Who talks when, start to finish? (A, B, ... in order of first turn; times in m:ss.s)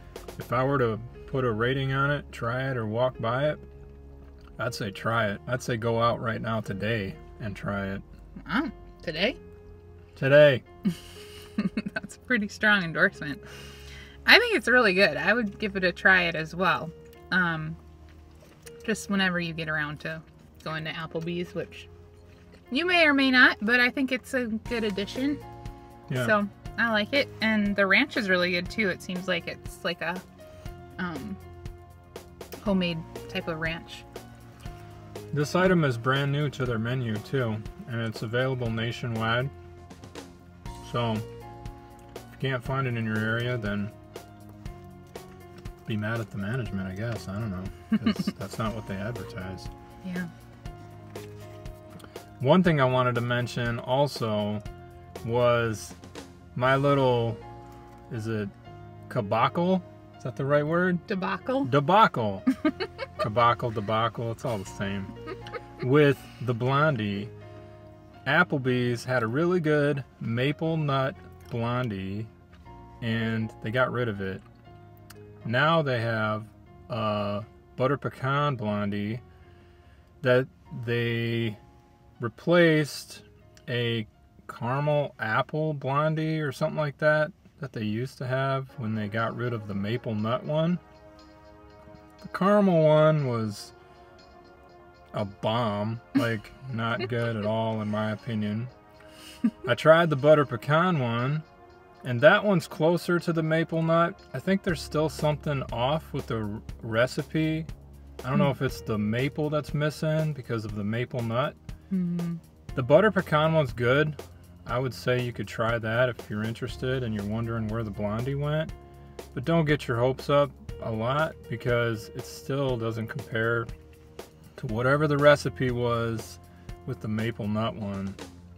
0:00.4-0:03.6 A
0:04.6-0:08.0 A
0:08.4-0:09.4 B
0:10.1-0:10.6 A
0:11.6-0:13.4 B
0:14.2-0:17.8 B
0:18.8-0:21.9 B
0:22.7-0:25.4 B
0:26.1-0:26.3 A
0:26.1-0:30.2 B
0:31.0-0:31.4 B
0:32.6-0:34.0 B
0:35.3-0:39.5 A
0:40.8-0:41.2 A
0:42.3-0:43.9 A
0:45.8-0:49.7 A
0:50.0-0:50.3 B
0:52.4-0:54.6 A
0:55.2-0:56.0 A
0:56.5-0:57.4 A
0:58.1-0:58.5 A
0:59.1-1:01.0 A
1:01.1-1:01.7 B
1:01.6-1:02.4 A
1:03.2-1:05.1 A
1:05.8-1:07.3 A
1:08.2-1:12.3 A
1:13.0-1:14.4 A
1:15.4-1:19.2 A
1:20.2-1:21.6 A
1:22.2-1:30.8 A
1:32.2-1:33.7 A
1:35.1-1:38.7 A
1:39.6-1:41.4 A
1:42.0-1:47.7 A
1:48.2-1:51.6 A
1:51.9-1:52.4 B
1:52.7-1:58.7 A
1:59.3-2:03.7 A
2:04.6-2:08.2 A